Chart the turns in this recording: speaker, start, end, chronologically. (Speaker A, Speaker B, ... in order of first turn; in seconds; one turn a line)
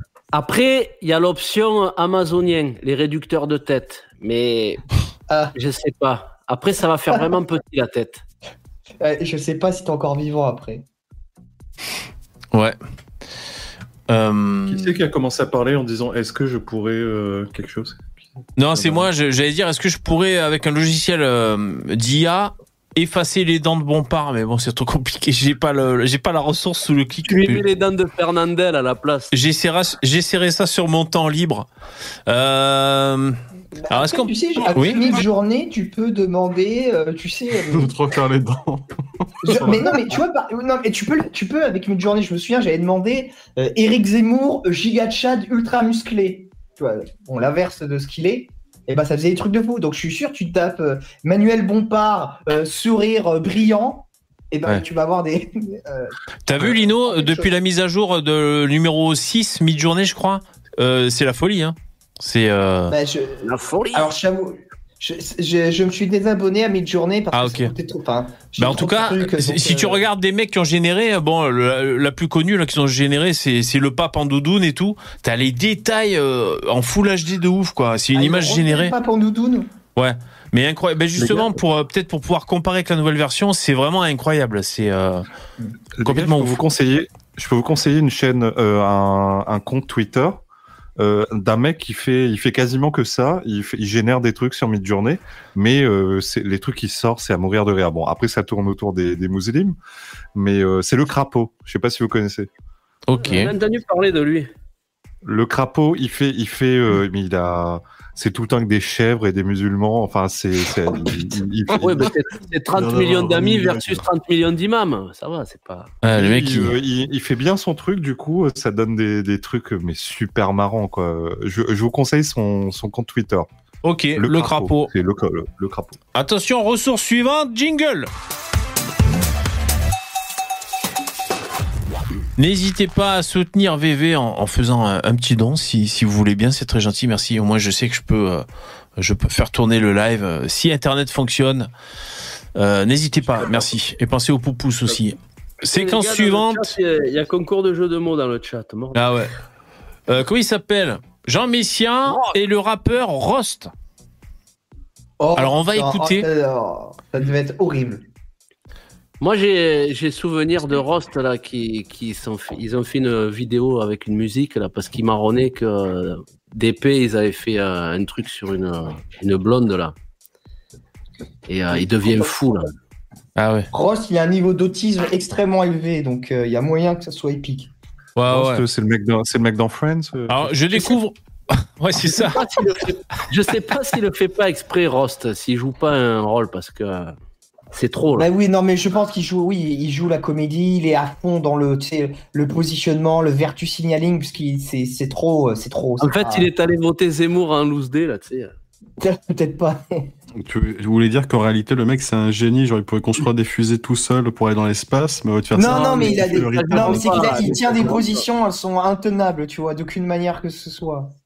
Speaker A: 0.3-4.8
Speaker A: 5.5-8.2
Speaker B: 9.0-10.8
Speaker C: 12.5-12.8
Speaker C: 14.1-15.0
Speaker D: 14.7-18.0
Speaker C: 18.6-27.6
Speaker D: 18.7-19.1
Speaker A: 27.2-29.3
Speaker C: 29.3-31.7
Speaker C: 32.3-33.4
Speaker B: 33.8-37.9
Speaker C: 33.9-35.1
Speaker E: 37.7-38.9
Speaker E: 39.4-39.9
Speaker B: 39.4-57.5
Speaker C: 56.5-62.9
Speaker B: 62.9-70.0
Speaker A: 63.4-64.1
Speaker C: 67.3-67.7
Speaker C: 68.6-78.9
Speaker B: 78.1-79.7
Speaker C: 80.0-85.2
Speaker D: 86.0-90.4
Speaker C: 86.0-86.6
Speaker D: 91.0-99.8
Speaker D: 100.3-102.5
Speaker C: 103.1-103.5
Speaker A: 103.2-104.5
Speaker D: 105.2-112.1
Speaker A: 111.8-115.9
Speaker E: 112.7-114.0
Speaker C: 116.0-116.8
Speaker D: 116.2-123.5
Speaker C: 123.8-124.9
Speaker D: 124.2-126.0
Speaker C: 126.1-128.1
Speaker C: 132.4-138.4
Speaker C: 139.0-141.7
Speaker C: 142.6-146.7
Speaker A: 145.7-149.0
Speaker C: 148.9-149.3
Speaker C: 150.1-153.7
Speaker B: 155.2-158.0
Speaker C: 155.3-156.3
Speaker A: 159.2-169.9
Speaker A: 171.5-172.7
Speaker B: 171.7-172.5
Speaker C: 173.3-173.7
Speaker B: 173.7-177.7
Speaker C: 178.2-178.6
Speaker D: 178.3-180.6
Speaker C: 180.3-182.4
Speaker A: 182.1-187.1
Speaker A: 187.7-188.3
Speaker B: 188.2-196.5
Speaker A: 196.0-198.5
Speaker B: 199.0-200.1
Speaker E: 200.4-207.9
Speaker B: 205.5-211.1
Speaker A: 205.6-208.2